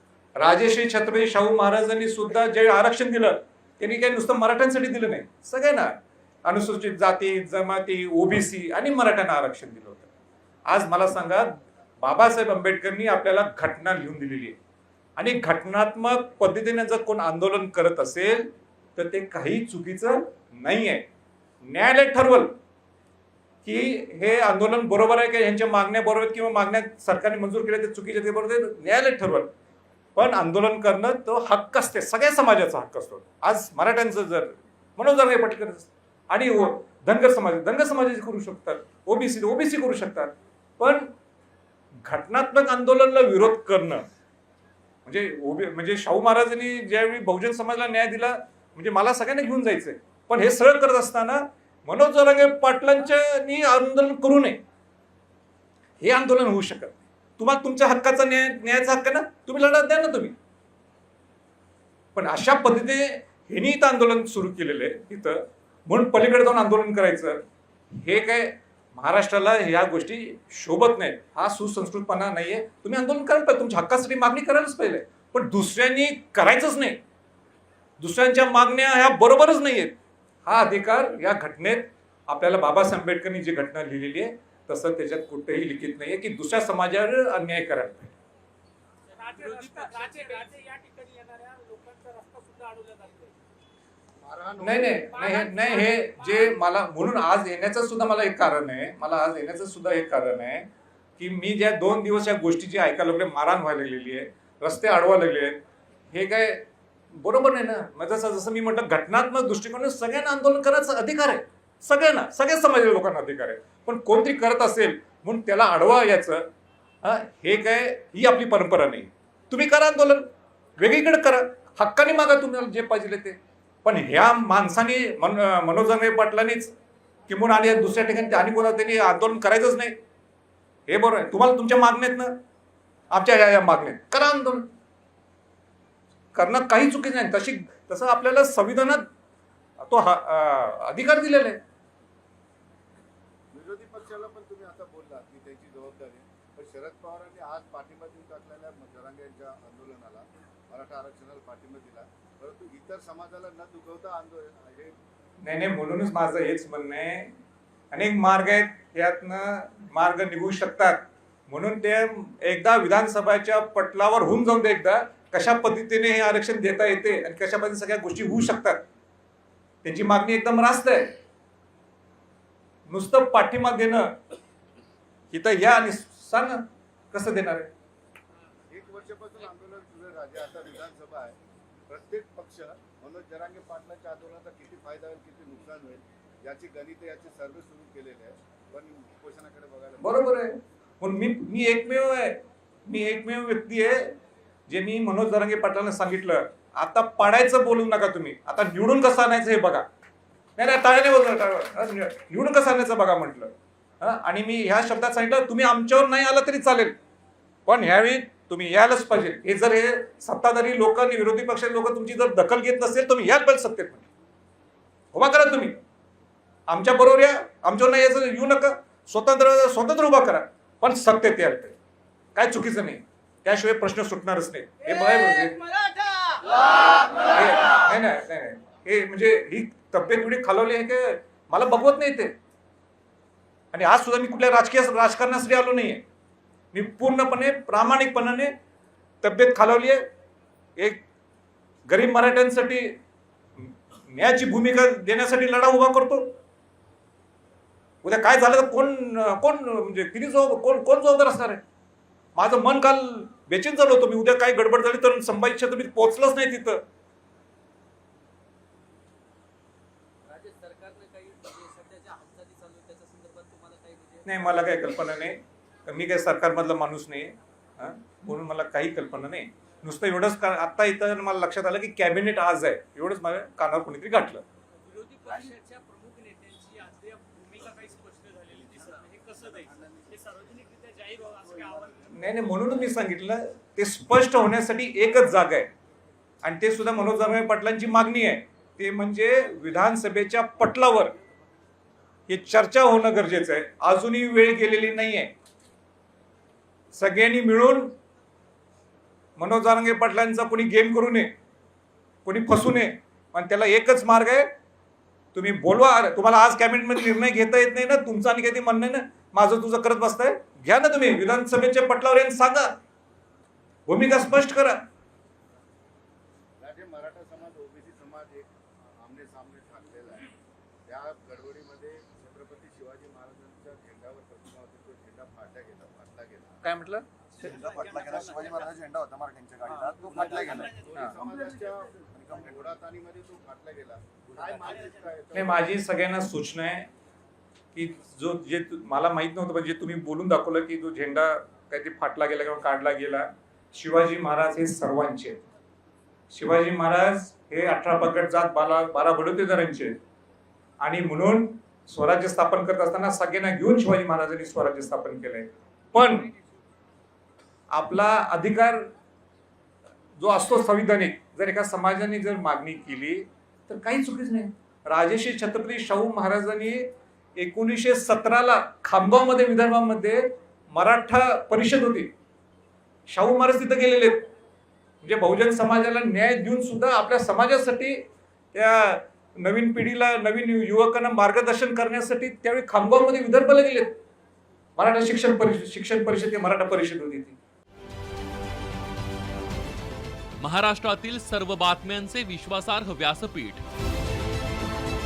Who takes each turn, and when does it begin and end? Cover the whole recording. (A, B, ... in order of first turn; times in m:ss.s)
0:00.4-0:06.0 A
0:06.5-0:10.1 A
0:10.7-0:14.6 A
0:15.2-0:21.1 A
0:21.7-0:22.5 A
0:23.6-0:29.5 A
0:30.2-0:41.1 A
0:42.0-0:44.1 A
0:45.1-0:54.6 A
0:56.0-1:00.4 A
1:02.2-1:17.0 A
1:18.0-1:28.1 A
1:29.2-1:33.3 B
1:29.4-1:30.5 C
1:31.0-1:32.5 C
1:34.2-1:35.2 D
1:34.6-1:40.7 A
1:41.2-1:45.6 A
1:46.1-1:56.5 A
1:57.0-2:00.3 A
2:00.8-2:06.7 A
2:07.3-2:10.0 A
2:10.9-2:12.4 A
2:13.1-2:14.7 A
2:16.3-2:19.0 A
2:19.8-2:21.6 A
2:23.5-2:35.0 D
2:35.4-2:37.3 A
2:37.9-2:48.8 A
2:49.8-2:51.1 A
2:52.9-2:54.2 A
2:55.3-2:57.7 A
2:58.7-3:01.4 D
3:01.9-3:10.2 D
3:10.0-3:14.1 A
3:14.7-3:19.8 A
3:20.6-3:27.0 A
3:27.7-3:34.0 A
3:35.1-3:35.8 A
3:36.7-3:41.8 A
3:42.4-3:45.7 A
3:47.3-3:52.3 A
3:53.7-3:56.0 A
3:56.7-3:58.5 A
3:59.2-4:00.0 A
4:00.8-4:01.0 A
4:01.9-4:02.9 A
4:04.0-4:06.3 A
4:08.0-4:11.6 A
4:12.4-4:16.8 A
4:20.3-4:24.5 C
4:24.2-4:34.4 A
4:34.9-4:38.5 C
4:34.9-4:41.9 B
4:39.5-4:40.4 D
4:41.3-4:42.1 D
4:42.1-4:45.7 A
4:46.4-4:51.1 A
4:52.3-4:55.3 A
4:56.9-4:57.9 A
4:59.4-5:01.3 A
5:02.2-5:04.5 A
5:05.3-5:12.7 A
5:13.9-5:14.8 A
5:16.6-5:20.3 D
5:20.9-5:26.6 D
5:26.6-5:27.5 A
5:27.4-5:30.9 E
5:27.7-5:28.5 B
5:27.8-5:28.3 D
5:29.8-5:35.8 D
5:32.1-5:32.7 E
5:34.3-5:34.9 E
5:35.3-5:36.9 A
5:37.7-5:45.4 A
5:46.3-5:50.0 A
5:50.8-5:56.3 A
5:57.7-5:58.9 A
6:00.2-6:12.1 A
6:13.1-6:14.3 A
6:15.0-6:18.0 A
6:18.5-6:24.0 A
6:24.8-6:27.4 A
6:30.4-6:33.6 F